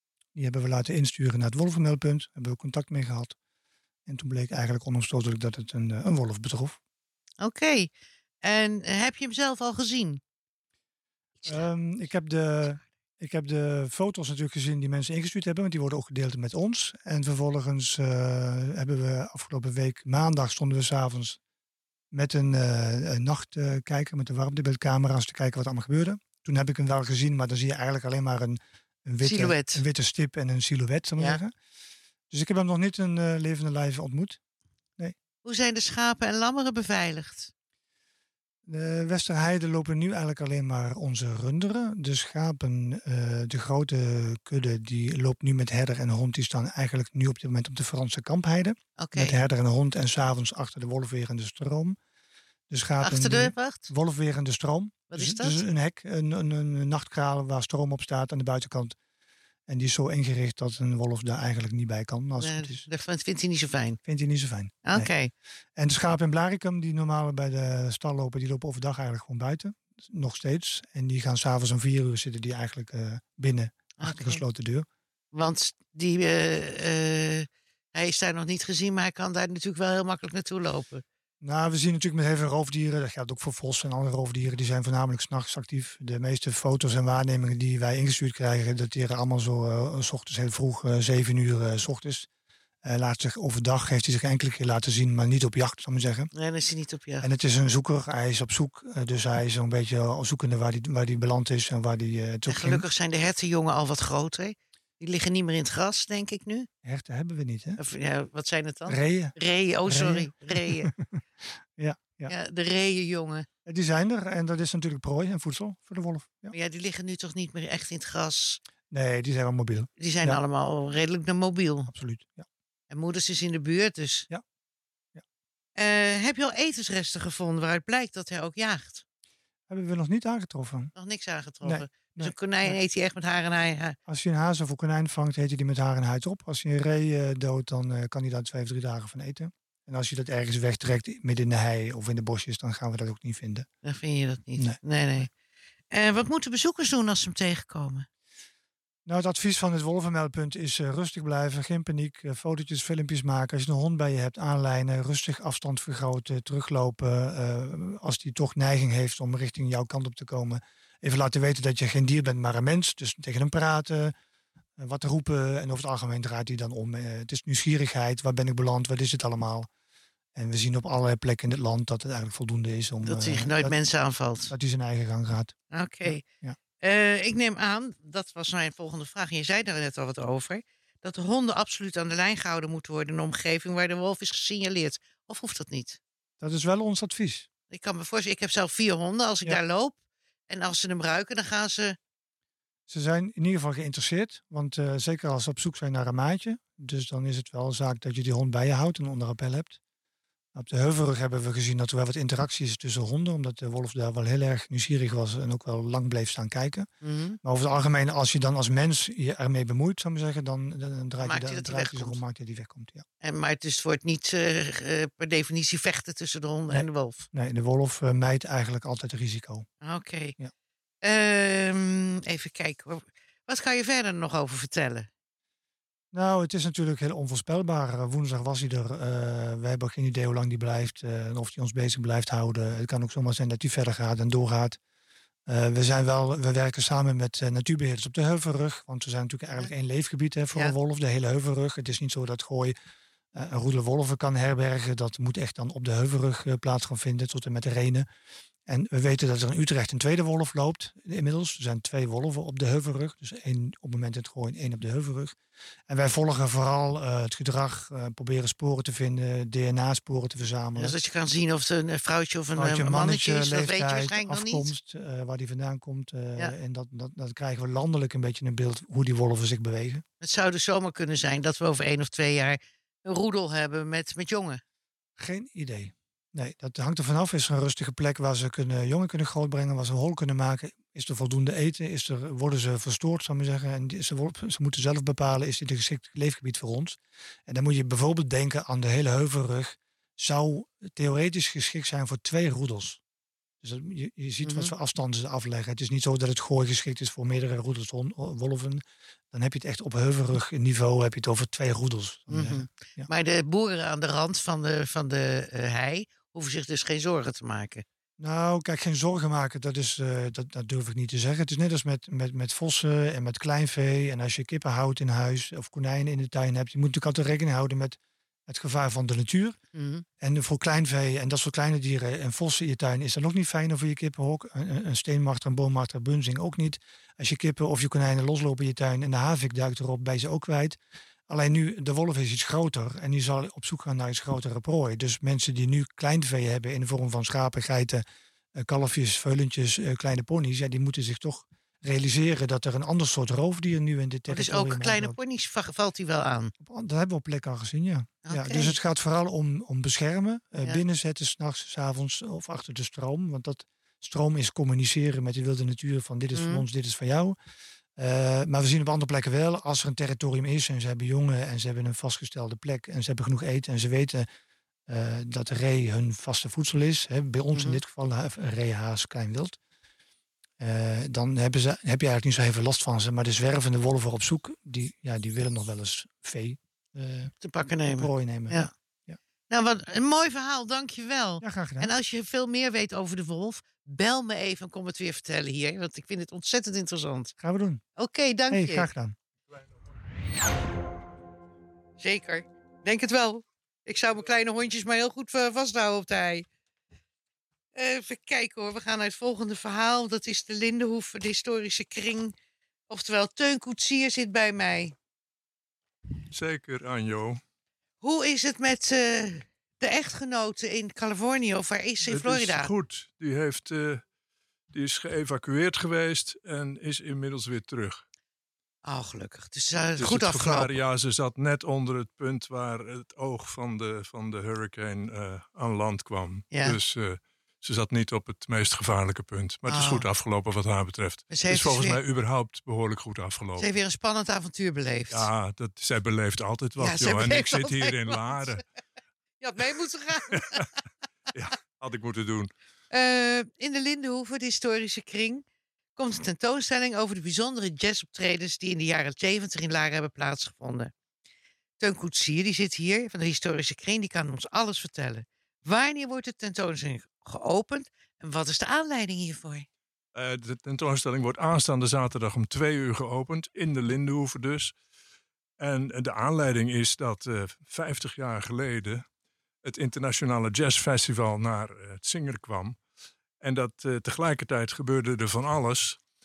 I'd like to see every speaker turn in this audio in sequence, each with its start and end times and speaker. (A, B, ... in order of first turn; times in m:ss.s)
0:00.4-0:03.4 A
0:04.1-0:06.8 A
0:07.4-0:07.9 B
0:08.4-0:10.2 B
0:11.4-0:11.7 B
0:11.5-0:21.4 A
0:22.1-0:31.5 A
0:29.2-0:29.8 B
0:32.3-0:34.4 A
0:35.4-0:37.5 B
0:38.7-0:52.0 A
0:49.0-0:49.4 B
0:52.7-0:59.0 A
0:53.0-0:53.9 B
0:55.1-0:55.6 B
0:59.7-1:02.8 A
1:02.4-1:04.0 B
1:04.0-1:05.1 A
1:04.8-1:05.3 B
1:05.8-1:14.9 A
1:14.0-1:14.4 B
1:15.3-1:21.0 B
1:21.4-1:32.3 A
1:32.8-1:36.3 A
1:36.3-1:37.3 B
1:37.2-1:42.8 A
1:42.5-1:46.7 B
1:46.8-1:47.8 A
1:47.8-1:50.9 B
1:48.9-1:49.3 A
1:49.8-1:51.0 A
1:51.8-1:52.3 A
1:52.3-1:53.5 B
1:53.6-1:56.5 A
1:56.5-1:58.6 B
1:58.9-2:00.4 A
2:00.0-2:01.9 B
2:01.9-2:02.5 A
2:02.9-2:04.3 B
2:05.8-2:09.0 B
2:09.7-2:10.9 A
2:11.0-2:14.0 B
2:11.6-2:12.8 A
2:14.1-2:23.7 A
2:23.8-2:25.3 B
2:24.6-2:25.2 A
2:25.9-2:28.1 B
2:29.1-2:44.1 A
2:44.8-2:49.7 A
2:50.4-2:53.8 A
2:53.1-2:54.5 B
2:54.5-2:56.6 A
2:55.7-2:56.2 B
2:56.8-3:06.0 B
3:06.4-3:07.5 A
3:07.7-3:10.0 B
3:10.5-3:12.0 B
3:12.9-3:19.8 A
3:20.6-3:26.9 A
3:27.0-3:27.4 B
3:27.4-3:33.0 A
3:31.2-3:32.2 B
3:33.2-3:37.3 B
3:36.7-3:39.7 A
3:39.8-3:40.4 B
3:41.0-3:45.1 B
3:46.1-3:54.8 A
3:55.5-4:02.8 A
4:03.3-4:08.1 A
4:08.7-4:15.4 A
4:15.9-4:21.0 A
4:20.8-4:24.7 B
4:22.6-4:30.0 A
4:30.2-4:34.6 B
4:35.2-4:53.0 A
4:53.6-5:03.1 A
4:54.4-4:54.7 B
5:02.3-5:07.8 B
5:08.2-5:19.6 A
5:19.7-5:20.0 B
5:20.2-5:38.0 A
5:38.6-5:45.2 A
5:44.3-5:46.5 B
5:46.6-5:57.4 A
5:48.2-5:48.8 B
5:56.3-5:56.6 B
5:58.0-6:04.3 A
6:04.9-6:09.6 A
6:07.6-6:07.8 B
6:10.6-6:17.3 A
6:17.4-6:18.7 B
6:17.9-6:19.2 A
6:19.5-6:27.3 B
6:21.4-6:21.9 A
6:27.4-6:27.8 A
6:28.0-6:28.9 B
6:28.5-6:29.2 A
6:32.0-6:36.5 B
6:37.7-6:42.3 B
6:42.9-6:45.0 B
6:46.3-6:47.4 C
6:48.0-6:52.7 B
6:52.0-6:54.0 C
6:54.7-6:58.0 C
6:58.8-7:00.8 B
7:00.0-7:13.7 C
7:06.5-7:06.8 B
7:09.7-7:10.0 B
7:11.3-7:12.0 B
7:13.6-7:15.3 B
7:15.1-7:18.6 C
7:16.8-7:18.6 B
7:19.4-7:20.6 B
7:20.4-7:20.7 C
7:21.3-7:22.5 C
7:22.9-7:25.4 B
7:26.0-7:30.9 B
7:31.8-7:39.7 B
7:40.2-7:44.7 C
7:45.6-7:49.0 C
7:49.6-7:52.8 C
7:53.4-7:56.0 C